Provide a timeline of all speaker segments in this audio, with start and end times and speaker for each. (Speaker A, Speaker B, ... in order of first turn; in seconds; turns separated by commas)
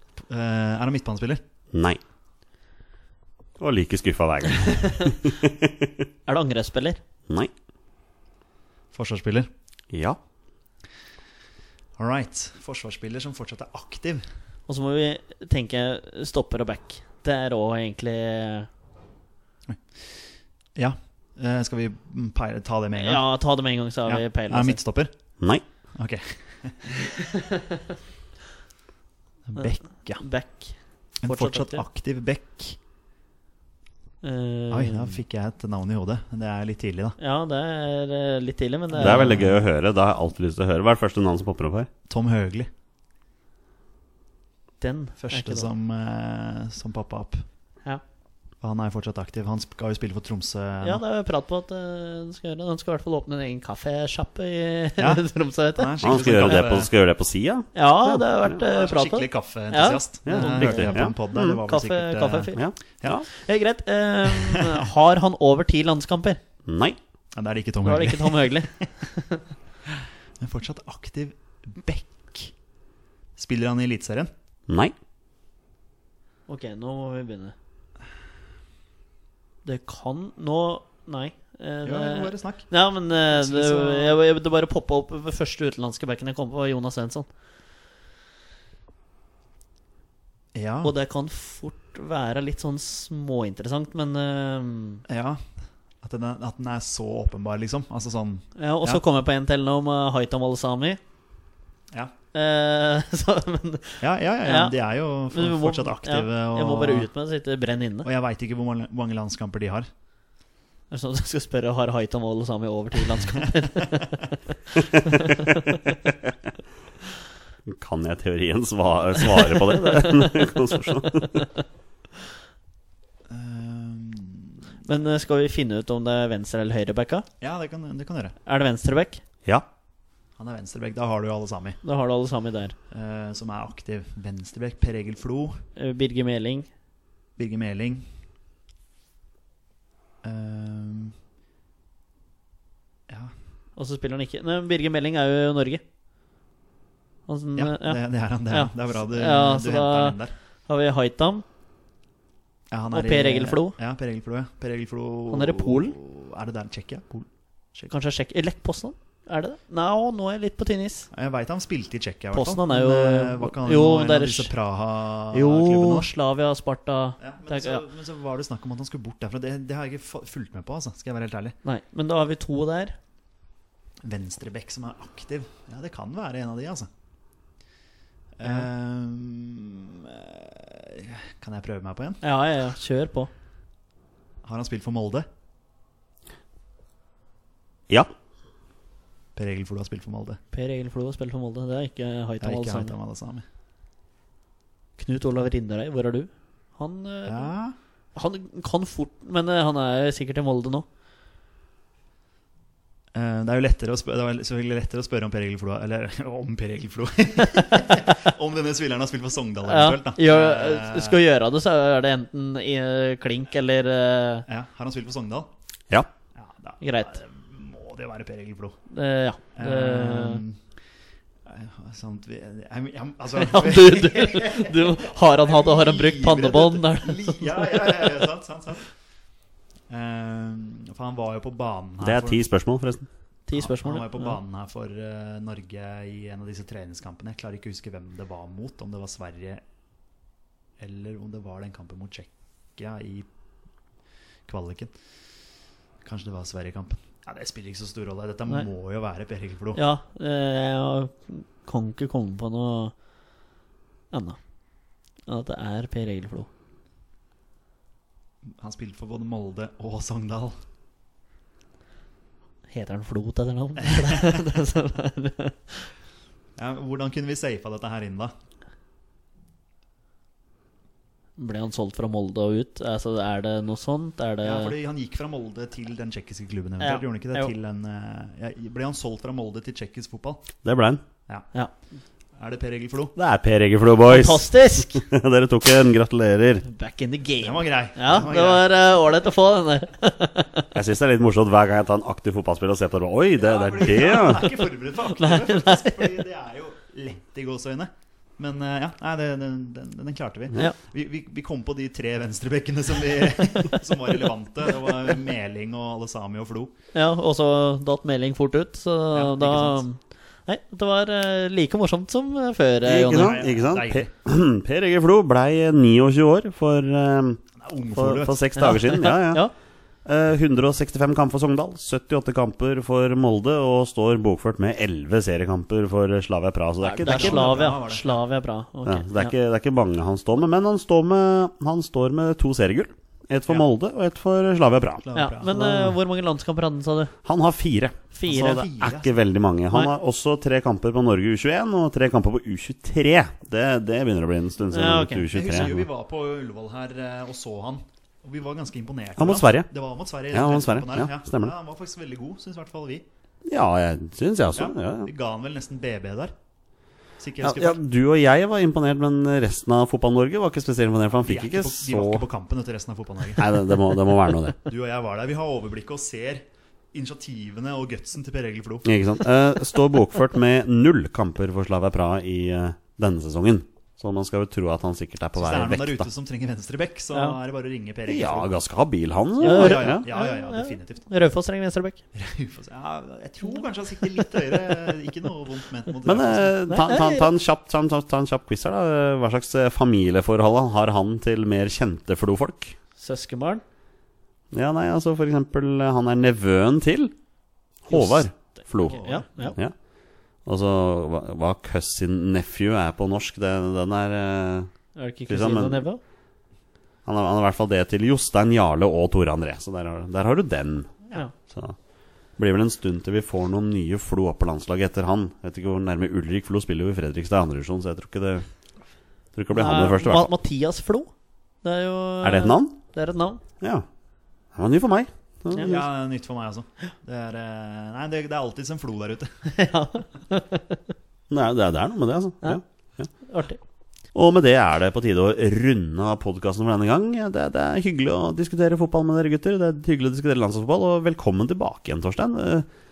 Speaker A: 0.3-1.4, Speaker B: 1.7-2.0, Speaker B: 3.6-6.0, Speaker C: 4.7-5.1, Speaker C: 6.3-7.0, Speaker A: 8.9-9.5, Speaker B: 9.9-10.2, Speaker A: 12.0-14.2, Speaker C: 14.7-18.7, Speaker A: 20.8-23.2, Speaker C: 23.0-24.8, Speaker A: 24.1-25.1, Speaker A: 26.0-27.1, Speaker C: 27.2-27.8, Speaker A: 29.4-30.2, Speaker C: 29.6-31.8, Speaker A: 31.2-32.8, Speaker C: 34.2-35.1, Speaker A: 34.7-37.2, Speaker C: 37.2-39.5, Speaker A: 38.9-39.6, Speaker B: 39.0-41.9, Speaker A: 42.1-42.7, Speaker C: 44.8-45.7, Speaker A: 45.2-47.4, Speaker A: 48.6-51.0, Speaker C: 50.8-56.0, Speaker A: 55.0-56.9, Speaker B: 56.0-58.5, Speaker C: 57.7-62.6, Speaker A: 58.5-63.2, Speaker B: 60.2-61.6, Speaker B: 62.5-63.3, Speaker C: 63.3-66.4, Speaker A: 64.3-64.8, Speaker B: 66.7-67.0, Speaker A: 67.3-68.8, Speaker C: 67.8-69.4, Speaker A: 70.4-72.5, Speaker A: 73.3-74.3, Speaker B: 74.7-74.9, Speaker C: 76.5-77.5, Speaker C: 79.6-87.3, Speaker A: 81.8-82.7, Speaker A: 83.3-84.2, Speaker A: 90.5-90.9, Speaker C: 90.8-95.0, Speaker A: 95.1-95.4, Speaker A: 96.0-99.0, Speaker C: 98.6-101.0, Speaker C: 102.3-104.7, Speaker A: 104.0-107.1, Speaker C: 105.3-108.1, Speaker A: 108.0-109.9, Speaker C: 110.9-114.4, Speaker C: 114.9-115.8, Speaker B: 115.0-115.4, Speaker B: 116.0-116.3, Speaker B: 117.7-121.4, Speaker C: 119.6-120.5, Speaker C: 121.2-121.4, Speaker A: 123.3-124.6, Speaker C: 124.8-127.2, Speaker A: 127.4-128.3, Speaker C: 128.4-129.2, Speaker A: 130.4-131.8, Speaker C: 131.8-132.7, Speaker A: 132.9-135.6, Speaker C: 135.8-136.7, Speaker A: 137.4-138.1, Speaker A: 140.2-141.1, Speaker C: 143.8-145.8, Speaker C: 147.3-150.2, Speaker A: 147.6-150.3, Speaker C: 150.7-151.4, Speaker A: 152.7-157.9, Speaker C: 152.9-153.8, Speaker C: 155.3-156.0, Speaker C: 157.9-161.1, Speaker A: 161.1-166.1, Speaker C: 162.3-164.5, Speaker C: 165.3-167.8, Speaker A: 167.2-171.6, Speaker C: 171.6-172.9, Speaker A: 174.0-176.9, Speaker A: 178.4-182.2, Speaker C: 182.2-183.3, Speaker A: 184.4-185.2, Speaker A: 189.3-190.4, Speaker C: 190.5-192.9, Speaker A: 192.4-193.4, Speaker C: 195.0-197.5, Speaker A: 197.3-197.7, Speaker C: 198.2-200.8, Speaker A: 203.1-211.2, Speaker C: 209.6-214.4, Speaker A: 214.5-215.5, Speaker A: 216.3-218.8, Speaker C: 216.8-217.2, Speaker C: 218.9-220.4, Speaker A: 219.6-220.6, Speaker A: 221.5-228.9, Speaker C: 223.3-228.0, Speaker A: 229.9-232.4, Speaker B: 232.0-233.1, Speaker C: 233.5-234.4, Speaker A: 233.5-239.6, Speaker A: 240.8-243.2, Speaker A: 244.5-244.9, Speaker A: 246.0-249.8, Speaker C: 249.7-252.9, Speaker C: 254.1-254.4, Speaker C: 255.3-256.5, Speaker A: 258.6-260.6, Speaker C: 262.7-265.9, Speaker A: 263.9-264.4, Speaker A: 266.6-268.3, Speaker C: 271.4-274.7, Speaker A: 274.4-280.6, Speaker C: 276.8-277.5, Speaker B: 280.6-281.0, Speaker A: 282.4-283.1, Speaker B: 283.1-286.6, Speaker C: 284.1-285.0, Speaker C: 286.6-290.7, Speaker A: 287.4-288.7, Speaker B: 290.7-294.5, Speaker A: 293.4-306.7, Speaker C: 295.1-296.2, Speaker C: 303.5-303.8, Speaker C: 306.9-313.4, Speaker A: 309.1-309.8, Speaker B: 312.8-317.4, Speaker A: 313.1-314.1, Speaker A: 317.6-318.4, Speaker B: 317.9-319.4, Speaker C: 318.6-319.5, Speaker B: 320.0-327.5, Speaker C: 326.8-329.3, Speaker A: 327.0-328.0, Speaker B: 328.8-335.0, Speaker A: 335.0-335.9, Speaker C: 335.1-337.1, Speaker B: 337.2-345.9, Speaker C: 338.1-338.6, Speaker A: 338.3-339.1, Speaker C: 344.7-345.3, Speaker A: 345.3-353.0, Speaker B: 349.2-349.7, Speaker B: 350.3-351.5, Speaker B: 353.4-355.1, Speaker A: 354.5-356.3, Speaker A: 357.2-357.8, Speaker B: 357.4-362.2, Speaker A: 361.2-363.8, Speaker B: 363.4-364.6, Speaker A: 364.6-368.9, Speaker B: 368.8-376.1, Speaker A: 375.4-378.5, Speaker B: 378.1-380.0, Speaker A: 379.4-381.0, Speaker C: 379.4-382.0, Speaker A: 382.1-386.6, Speaker B: 386.0-392.8, Speaker C: 386.7-387.3, Speaker C: 393.0-393.6, Speaker B: 394.5-397.1, Speaker B: 397.8-399.7, Speaker C: 397.9-399.6, Speaker A: 398.8-399.6, Speaker B: 400.4-404.7, Speaker C: 404.9-406.0, Speaker B: 405.3-405.8, Speaker B: 407.0-411.8, Speaker B: 412.4-418.4, Speaker B: 419.3-420.3, Speaker C: 419.5-421.1, Speaker C: 421.6-423.4, Speaker B: 422.2-422.8, Speaker B: 423.6-423.9, Speaker B: 424.5-425.8, Speaker C: 425.5-425.8, Speaker A: 425.6-429.3, Speaker C: 429.5-430.8, Speaker B: 431.3-433.1, Speaker C: 433.2-433.6, Speaker B: 434.1-442.7